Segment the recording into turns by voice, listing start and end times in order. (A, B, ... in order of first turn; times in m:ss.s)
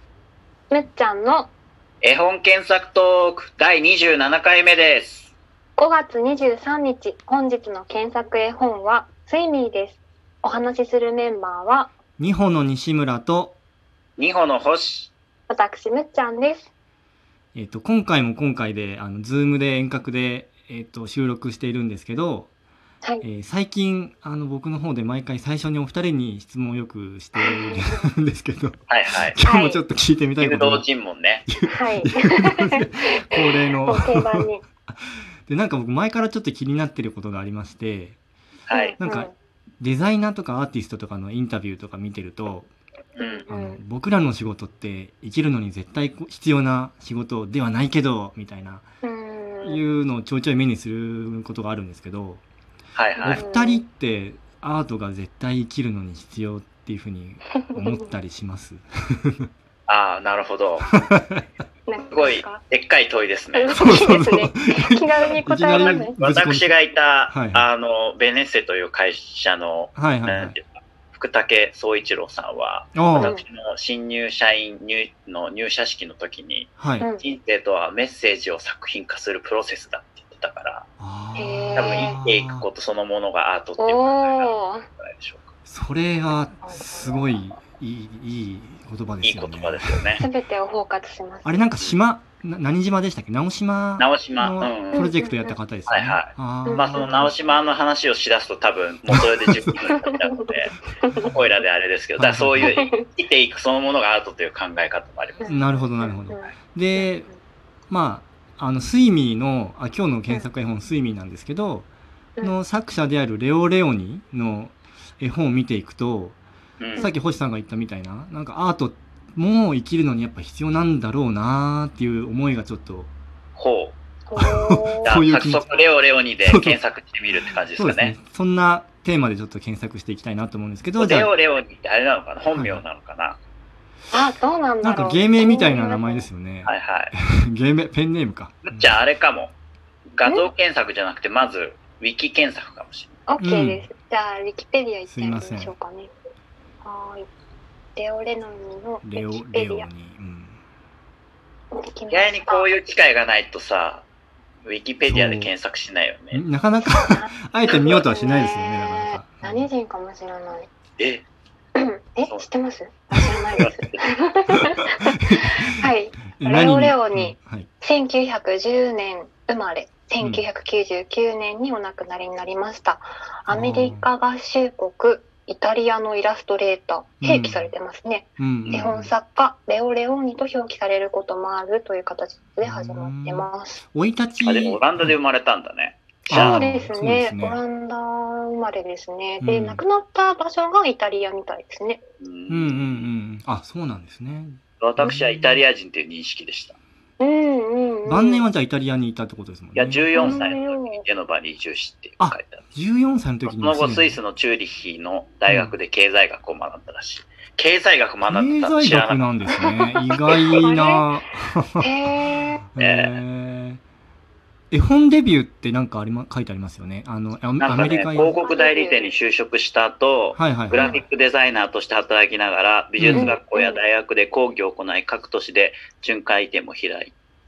0:00.7-0:01.5 A
0:02.0-0:05.3 B
0:05.8-0:11.9 A
0:12.2-0:13.6 C
0:14.2-0:15.1 B
0:15.5-0:16.7 A
0:17.5-0:22.5 C
0:23.2-0:28.8 C
0:27.4-0:28.1 A
0:28.9-0:29.4 B
0:29.3-0:30.8 C
0:29.4-0:29.8 A
0:30.4-0:31.5 B
0:31.5-0:38.2 C
0:31.6-0:34.6 A
0:38.7-0:39.0 B
0:38.7-0:39.3 A
0:39.0-0:42.7 C
0:43.1-0:43.4 B
0:43.2-0:43.8 A
0:43.5-0:48.8 C
0:49.0-0:49.8 A
0:49.6-0:52.4 C
0:52.9-0:53.4 B
0:53.2-0:59.5 C
0:53.4-0:53.8 A
0:57.5-0:58.0 A
0:59.9-1:00.9 B
1:01.0-1:01.4 C
1:01.9-1:02.6 A
1:02.1-1:03.8 B
1:03.5-1:06.2 A
1:03.7-1:06.7 C
1:05.3-1:20.8 B
1:07.3-1:07.6 C
1:10.0-1:10.6 C
1:12.9-1:13.3 C
1:13.2-1:13.4 A
1:16.8-1:17.1 C
1:21.0-1:22.6 C
1:21.4-1:22.2 A
1:21.7-1:25.5 B
1:23.8-1:24.9 A
1:25.7-1:30.3 C
1:26.6-1:27.4 A
1:29.2-1:30.2 B
1:30.2-1:31.6 A
1:31.4-1:37.3 C
1:34.0-1:35.1 B
1:34.9-1:35.6 A
1:35.9-1:45.4 B
1:36.6-1:37.3 A
1:39.1-1:39.8 C
1:39.8-1:41.3 A
1:42.2-1:42.7 C
1:42.6-1:43.1 A
1:45.4-1:47.4 A
1:45.5-1:47.3 C
1:47.9-1:51.9 C
1:52.4-1:56.4 C
1:56.8-1:57.1 B
1:57.0-2:03.1 C
2:03.6-2:04.0 B
2:04.3-2:05.1 A
2:04.4-2:05.8 C
2:05.0-2:08.1 B
2:06.4-2:06.8 C
2:07.8-2:11.3 C
2:11.0-2:13.4 B
2:12.5-2:12.8 C
2:14.1-2:16.3 A
2:14.8-2:19.0 C
2:16.6-2:17.1 B
2:18.6-2:19.5 B
2:20.1-2:23.2 B
2:23.3-2:26.1 A
2:23.4-2:23.9 C
2:25.1-2:25.7 C
2:26.8-2:27.3 A
2:28.0-2:29.9 A
2:29.0-2:30.6 C
2:31.7-2:32.7 A
2:32.1-2:34.0 B
2:34.6-2:36.4 B
2:35.0-2:35.5 C
2:36.3-2:39.7 C
2:36.8-2:40.7 A
2:41.0-2:41.2 B
2:41.8-3:03.8 A
2:43.5-2:44.2 B
2:44.5-2:47.7 C
2:53.5-2:54.1 C
2:57.2-2:57.7 C
2:58.4-2:59.1 C
3:02.6-3:05.2 C
3:04.4-3:06.6 B
3:06.2-3:07.6 C
3:06.3-3:12.0 A
3:09.4-3:09.8 C
3:12.2-3:13.1 B
3:12.5-3:15.6 C
3:14.8-3:16.8 B
3:17.2-3:18.4 A
3:18.0-3:20.5 C
3:19.8-3:22.6 B
3:20.1-3:21.0 A
3:22.2-3:24.2 C
3:23.4-3:29.3 B
3:28.3-3:32.1 C
3:30.5-3:31.1 A
3:31.8-3:32.6 A
3:32.7-3:33.8 C
3:32.8-3:33.2 B
3:34.7-3:38.4 C
3:37.6-3:47.1 B
3:38.4-3:39.1 A
3:40.4-3:41.0 C
3:40.7-3:41.0 A
3:43.0-3:43.4 C
3:43.1-3:43.8 A